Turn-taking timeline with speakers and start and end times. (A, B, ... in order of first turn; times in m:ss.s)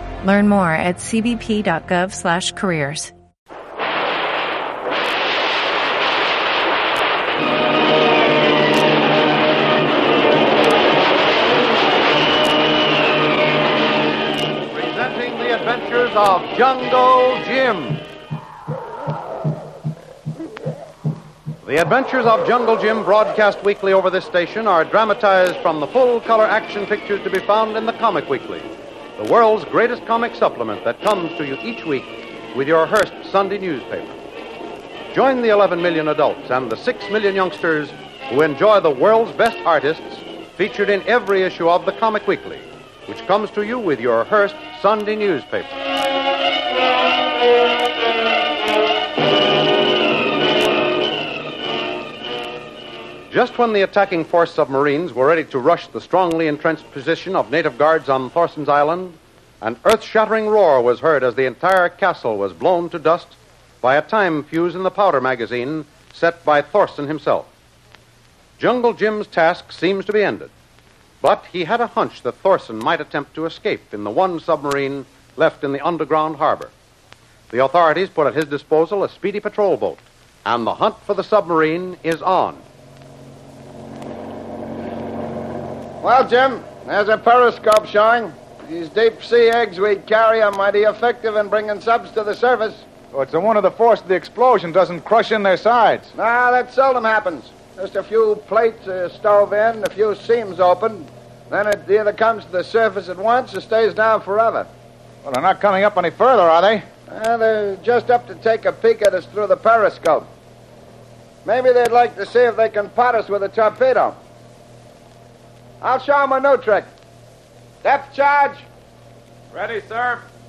0:00.2-0:03.1 A
0:14.7-0:18.0 B
0:21.6-0:34.2 B
0:35.1-0:45.8 B
0:53.3-1:07.5 B
1:08.6-1:10.5 B
1:11.2-1:16.7 B
1:17.5-1:22.6 B
1:26.0-1:32.9 C
1:33.1-1:36.1 D
1:36.1-1:44.7 C
1:45.2-1:46.8 D
1:47.1-1:50.3 C
1:51.4-1:54.2 C
1:55.8-1:56.9 C
1:57.8-1:58.6 C
1:59.5-2:00.0 D